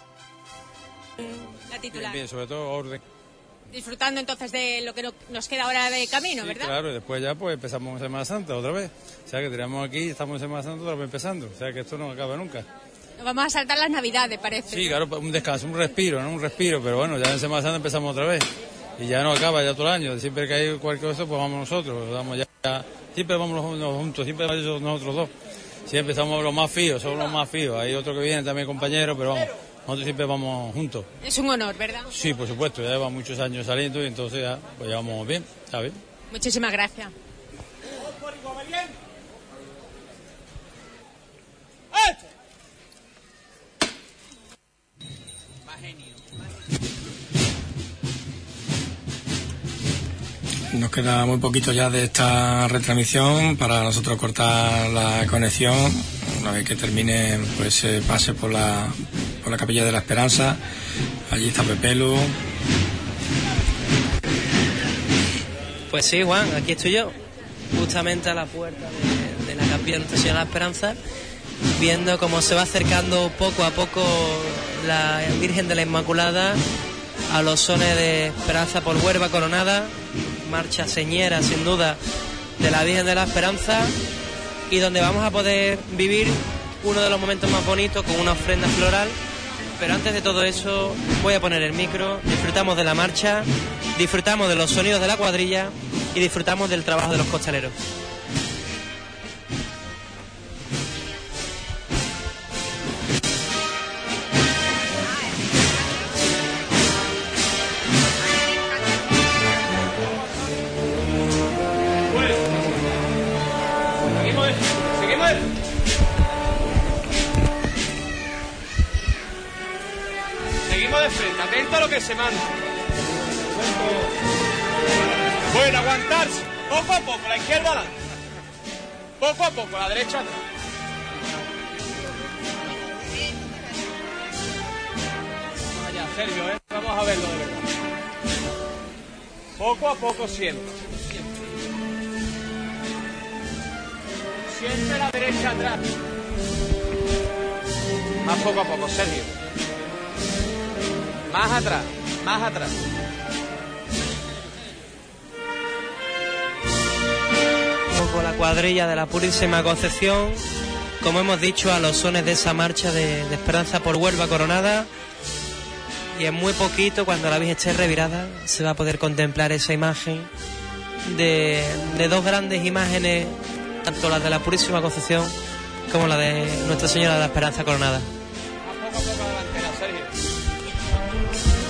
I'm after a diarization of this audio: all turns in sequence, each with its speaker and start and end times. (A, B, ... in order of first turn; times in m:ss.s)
0:01.2-0:02.2 A
0:01.9-0:03.0 B
0:03.7-0:06.7 A
0:06.4-0:12.6 B
0:13.2-0:15.0 A
0:14.7-0:18.4 B
0:19.0-0:25.3 B
0:25.9-0:31.1 B
0:31.2-0:32.1 A
0:32.1-0:36.0 B
0:36.3-0:37.1 A
0:50.7-1:00.6 C
1:01.3-1:02.3 C
1:05.9-1:07.2 D
1:07.7-1:11.0 D
1:11.8-1:16.6 D
1:17.3-1:22.0 D
1:22.6-1:23.9 D
1:24.7-1:29.2 D
1:29.8-1:37.8 D
1:54.2-1:55.4 E
2:00.6-2:02.4 E
2:05.5-2:07.9 E
2:09.2-2:10.4 E
2:15.8-2:17.6 E
2:19.6-2:20.7 E
2:24.5-2:25.8 E
2:28.2-2:29.3 E
2:31.3-2:32.7 E
2:37.9-2:40.4 D
2:41.0-2:44.9 D
2:46.2-2:50.3 D
2:51.0-2:55.3 D
2:55.9-2:58.1 D
2:58.6-3:00.1 E